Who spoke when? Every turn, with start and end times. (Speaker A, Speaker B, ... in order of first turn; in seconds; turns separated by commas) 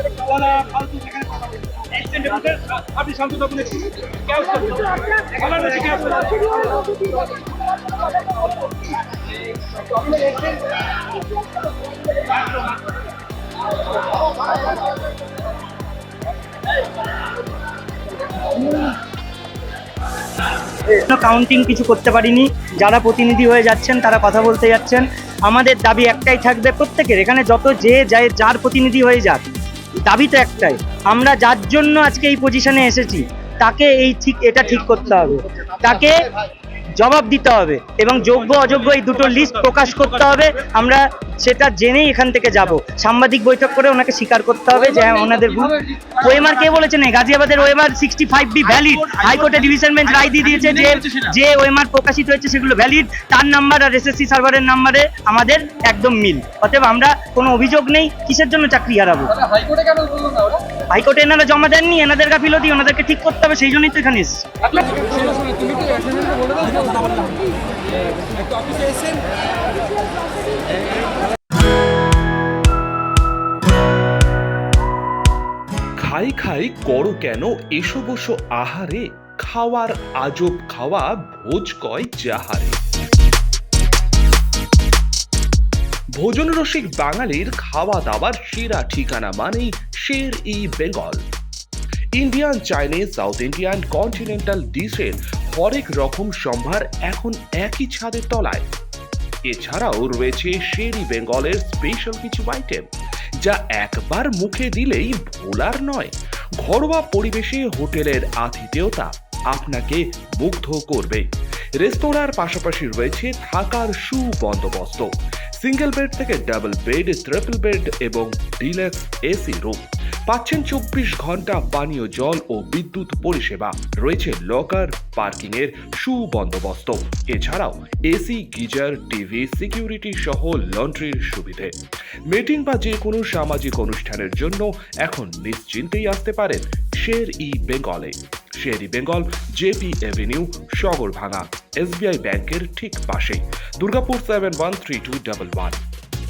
Speaker A: 0.4-1.2, Speaker B: 1.9-2.5, Speaker A: 2.1-6.3, Speaker B: 20.9-29.5, Speaker B: 30.0-36.3, Speaker B: 37.0-59.5, Speaker A: 59.5-60.6, Speaker B: 60.9-64.8, Speaker A: 65.2-67.3, Speaker C: 76.0-82.8, Speaker C: 86.2-91.2, Speaker C: 92.2-98.7, Speaker C: 99.5-102.8, Speaker C: 103.4-131.7, Speaker C: 132.3-145.8